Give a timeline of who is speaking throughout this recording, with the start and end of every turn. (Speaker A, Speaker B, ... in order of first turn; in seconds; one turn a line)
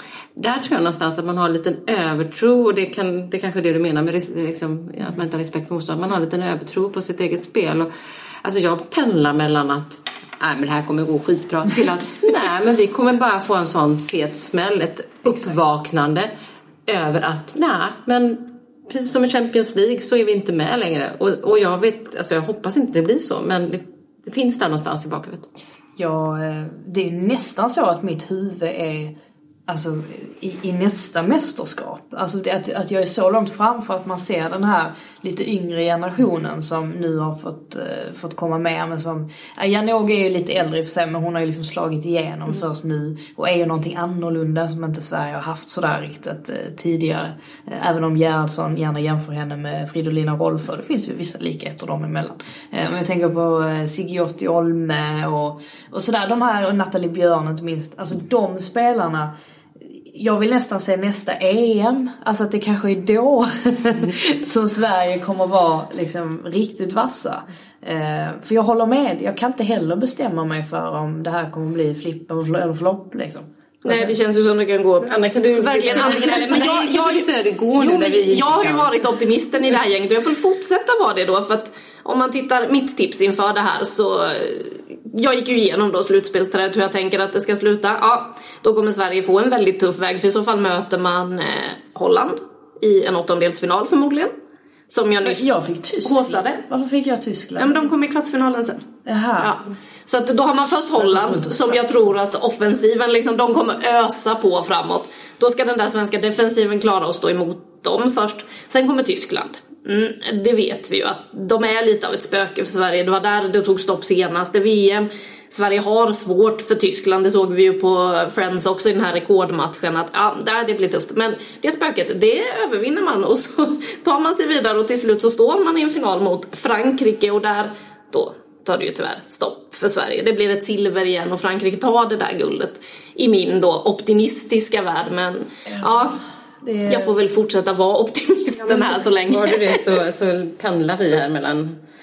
Speaker A: 0.3-7.9
Speaker A: 8.4-16.3
Speaker A: 16.9-25.5
Speaker B: 26.0-29.1
Speaker B: 29.7-59.3
Speaker B: 59.9-74.1
Speaker C: 73.8-94.3
Speaker A: 75.0-78.9
Speaker C: 94.9-95.5
Speaker B: 95.2-97.9
Speaker C: 96.0-96.6
Speaker C: 97.6-98.8
Speaker B: 99.0-99.5
Speaker C: 99.4-136.2
Speaker B: 101.0-101.8
Speaker B: 136.6-137.1
Speaker C: 136.9-139.9
Speaker A: 138.6-141.8